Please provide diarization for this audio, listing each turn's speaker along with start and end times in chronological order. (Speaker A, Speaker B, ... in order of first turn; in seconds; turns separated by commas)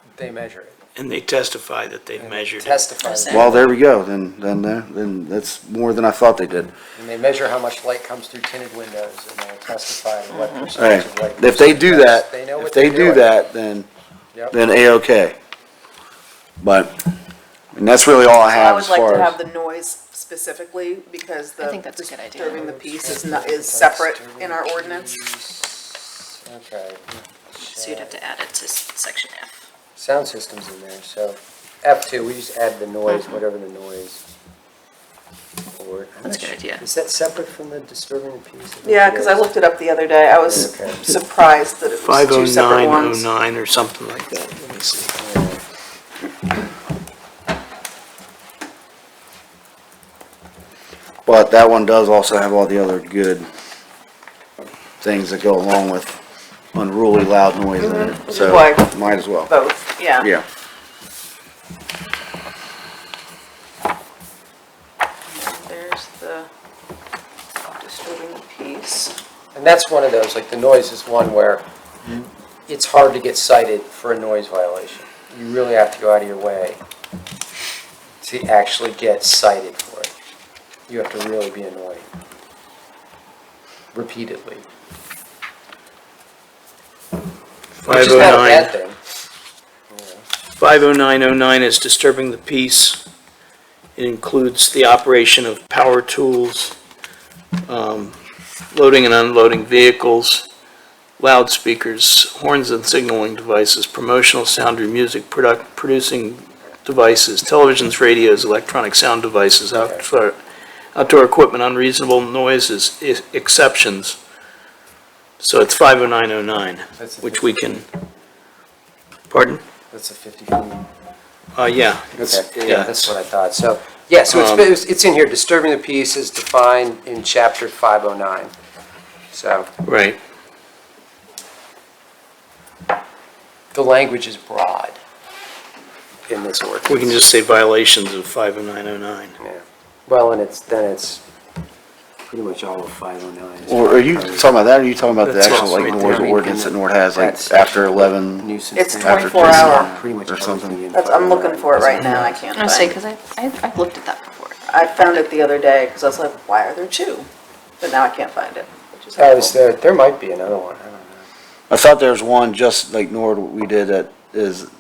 Speaker A: 0.2-0.8, Speaker B: 1.0-2.8, Speaker A: 2.2-3.7, Speaker C: 3.0-3.5, Speaker D: 3.3-6.7, Speaker A: 7.0-13.3, Speaker C: 10.4-10.7, Speaker D: 10.8-13.9, Speaker A: 14.3-14.6, Speaker D: 14.5-15.3, Speaker D: 16.6-16.9, Speaker D: 17.8-19.4, Speaker E: 18.5-25.2, Speaker C: 21.6-22.6, Speaker A: 22.5-28.2, Speaker C: 27.6-29.5, Speaker A: 30.0-34.2, Speaker C: 33.1-33.4, Speaker A: 35.7-39.5, Speaker C: 36.2-36.8, Speaker E: 38.8-43.3, Speaker A: 40.5-41.2, Speaker B: 41.9-45.1, Speaker A: 45.2-45.6, Speaker D: 51.3-53.5, Speaker D: 55.0-56.1, Speaker D: 56.7-59.5, Speaker E: 57.8-58.9, Speaker E: 59.5-60.3, Speaker E: 65.3-66.5, Speaker E: 67.7-69.1, Speaker A: 69.5-76.8, Speaker A: 78.2-80.1, Speaker A: 80.9-82.1, Speaker A: 83.9-84.7, Speaker B: 87.8-88.7, Speaker A: 87.9-89.0, Speaker A: 89.9-90.3, Speaker B: 90.6-93.0, Speaker B: 94.0-96.8, Speaker B: 97.7-98.2, Speaker B: 98.7-100.5, Speaker B: 101.2-110.4, Speaker A: 109.7-110.0, Speaker B: 111.0-114.2, Speaker B: 115.4-117.9, Speaker A: 117.0-117.8, Speaker B: 119.3-119.6, Speaker A: 119.9-120.9, Speaker B: 121.6-123.1, Speaker A: 122.1-128.5, Speaker B: 124.3-124.7, Speaker A: 129.3-129.7, Speaker B: 129.8-130.2, Speaker A: 133.7-135.0, Speaker A: 136.3-137.2, Speaker B: 136.9-139.3, Speaker A: 139.4-141.2, Speaker A: 142.3-144.6, Speaker D: 143.7-148.5, Speaker B: 145.2-146.4, Speaker A: 145.5-152.4, Speaker E: 148.8-149.9, Speaker D: 149.0-150.8, Speaker E: 150.9-152.9, Speaker C: 152.6-155.3, Speaker E: 154.7-157.3, Speaker E: 157.8-159.6, Speaker A: 159.2-161.3, Speaker D: 161.7-164.7